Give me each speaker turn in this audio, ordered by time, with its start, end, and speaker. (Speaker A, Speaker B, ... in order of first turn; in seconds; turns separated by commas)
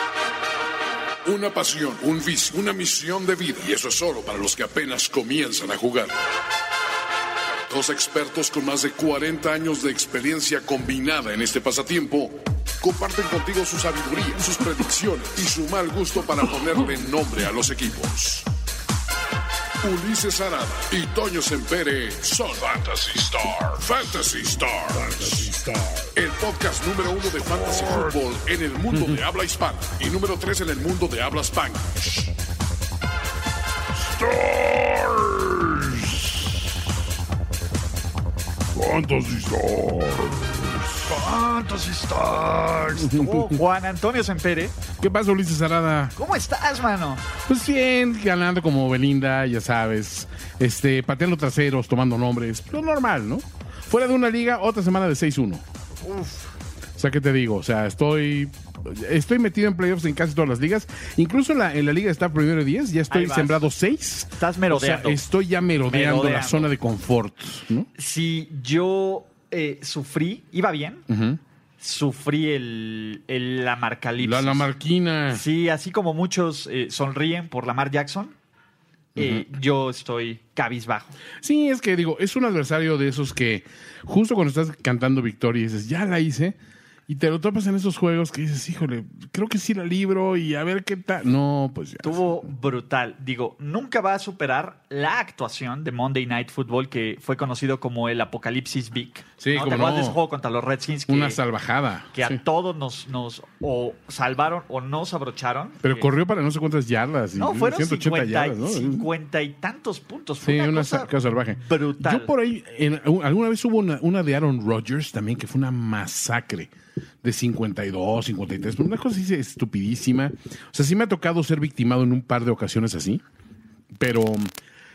Speaker A: 1.2-6.1, Speaker A: 7.7-18.5, Speaker A: 19.8-32.3, Speaker B: 28.9-29.2, Speaker A: 34.0-36.3, Speaker A: 38.8-40.8, Speaker C: 41.1-44.8, Speaker B: 43.0-43.6, Speaker B: 45.0-46.2, Speaker C: 46.2-47.2, Speaker B: 47.4-55.6, Speaker C: 56.0-56.5, Speaker B: 57.0-67.9, Speaker C: 63.1-63.6, Speaker C: 64.4-65.2, Speaker C: 65.9-66.7, Speaker C: 68.0-71.0, Speaker B: 71.1-71.4, Speaker C: 71.8-74.7, Speaker B: 74.2-75.4, Speaker C: 75.3-78.3, Speaker B: 79.2-79.5, Speaker C: 79.2-81.2, Speaker B: 81.4-86.6, Speaker B: 87.1-92.5, Speaker C: 92.0-101.4, Speaker B: 99.4-100.2, Speaker B: 101.1-102.4, Speaker C: 102.1-106.1, Speaker B: 105.8-109.1, Speaker C: 107.4-112.3, Speaker B: 110.4-116.7, Speaker B: 117.2-123.2, Speaker B: 124.0-124.5